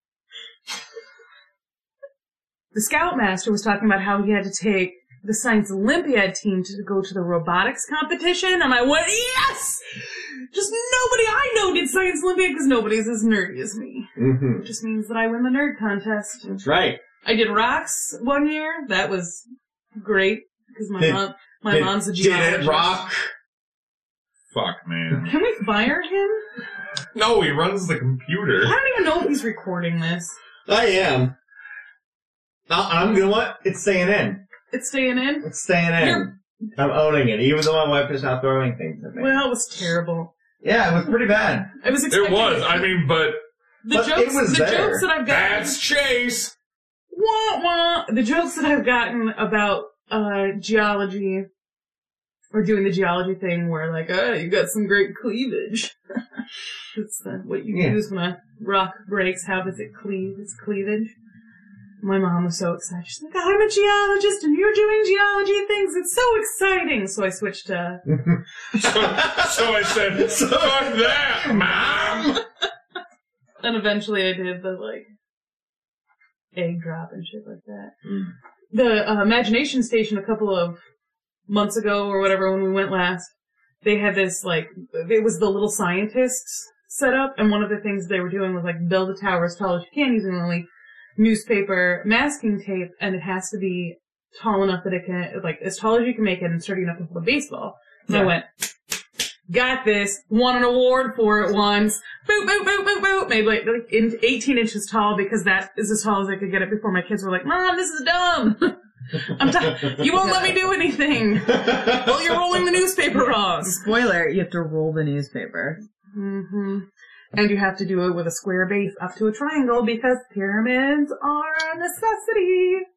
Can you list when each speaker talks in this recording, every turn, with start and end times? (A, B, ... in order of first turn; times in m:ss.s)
0:02.7-0:16.4 A
0:14.2-0:14.7 B
0:16.4-0:17.0 B
0:17.2-0:19.4 A
0:20.0-0:23.0 A
0:21.0-0:23.3 B
0:24.5-0:25.3 C
0:25.2-0:26.4 A
0:27.1-0:28.8 C
0:28.6-0:30.4 A
0:30.7-0:31.4 B
0:32.7-0:34.4 B
0:34.7-0:36.3 A
0:35.4-0:39.4 B
0:39.2-0:40.3 A
0:40.6-0:41.8 B
0:41.8-0:43.0 A
0:42.1-0:43.4 C
0:43.8-0:45.8 A
0:43.9-0:45.1 B
0:45.3-0:46.5 C
0:47.1-0:51.5 A
0:52.5-0:55.9 A
0:56.9-1:01.1 A
0:57.7-0:58.0 B
1:02.0-1:08.0 A
1:08.1-1:12.4 B
1:08.8-1:12.4 C
1:13.6-1:15.1 A
1:16.6-1:17.9 A
1:18.0-1:18.3 B
1:18.7-1:20.8 A
1:21.5-1:23.3 A
1:23.8-1:38.5 A
1:39.5-1:53.8 A
1:51.6-1:52.1 B
1:53.2-1:55.8 D
1:56.1-2:02.8 A